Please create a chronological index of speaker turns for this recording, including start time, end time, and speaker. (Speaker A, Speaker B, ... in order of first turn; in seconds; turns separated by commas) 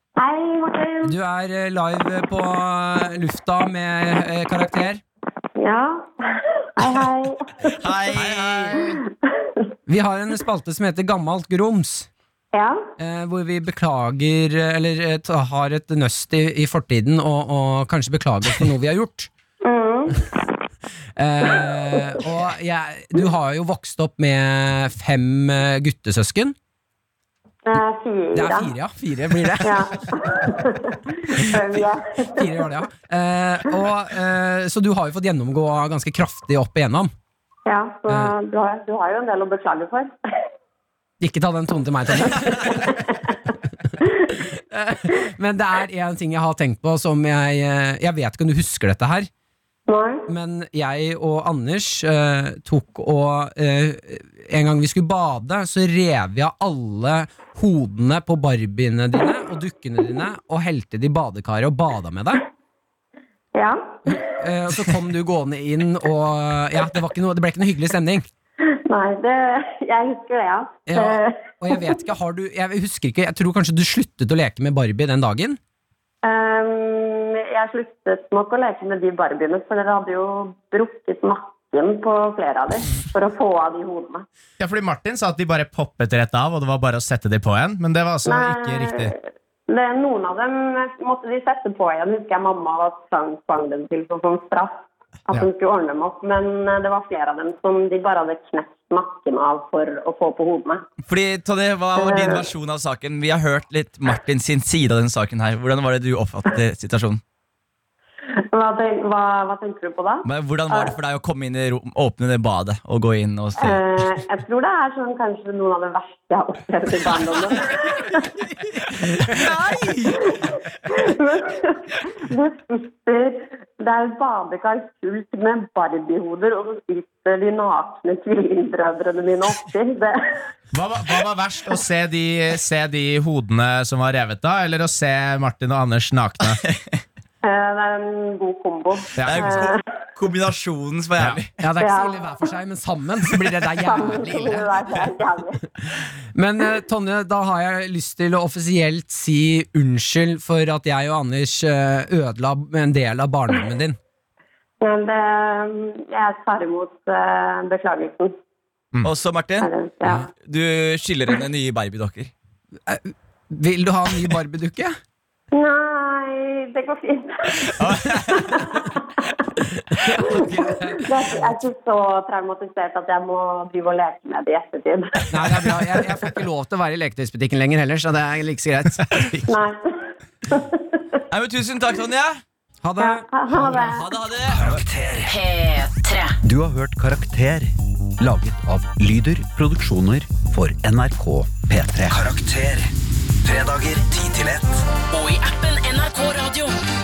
Speaker A: 0.2-1.2, Speaker B: 1.0-5.0, Speaker A: 5.6-7.8, Speaker C: 7.7-8.8, Speaker D: 8.1-9.0, Speaker B: 9.9-12.1, Speaker A: 12.5-12.9, Speaker B: 13.0-19.3, Speaker A: 19.6-20.2, Speaker B: 21.2-26.6, Speaker A: 21.5-22.1, Speaker A: 27.7-28.7, Speaker B: 28.3-30.0, Speaker A: 29.6-32.7, Speaker B: 31.4-31.8, Speaker B: 32.3-37.1, Speaker A: 37.7-40.1, Speaker B: 38.1-38.3, Speaker B: 41.2-42.9, Speaker A: 42.5-43.4, Speaker B: 44.4-49.3, Speaker A: 49.9-50.2, Speaker B: 50.3-62.4, Speaker A: 63.5-64.4, Speaker B: 64.1-68.3, Speaker A: 68.9-71.8, Speaker B: 70.9-75.6, Speaker A: 76.2-84.2, Speaker D: 84.6-89.1, Speaker A: 88.3-100.8, Speaker C: 101.0-107.2, Speaker A: 102.0-102.5, Speaker A: 108.5-111.0, Speaker C: 110.2-113.8, Speaker A: 113.6-118.3, Speaker B: 119.2-120.4, Speaker A: 120.1-130.2, Speaker D: 130.7-136.6, Speaker C: 136.6-136.9, Speaker A: 137.4-139.8, Speaker D: 139.2-139.5, Speaker C: 139.2-141.5, Speaker B: 141.6-145.1, Speaker A: 141.8-142.4, Speaker A: 143.7-145.6, Speaker B: 146.3-154.0, Speaker A: 154.8-158.3, Speaker C: 159.0-159.7, Speaker A: 159.6-160.3, Speaker C: 160.3-162.3, Speaker B: 162.9-165.0, Speaker A: 165.5-169.3, Speaker C: 167.7-168.7, Speaker B: 169.9-171.6, Speaker A: 170.0-175.3, Speaker B: 175.3-179.3, Speaker A: 179.5-181.2, Speaker C: 181.3-182.4, Speaker B: 182.8-183.3, Speaker A: 183.0-184.2, Speaker C: 183.5-184.8, Speaker E: 184.5-185.3, Speaker F: 185.3-186.3, Speaker E: 186.4-192.9, Speaker E: 193.4-194.8, Speaker F: 195.1-196.7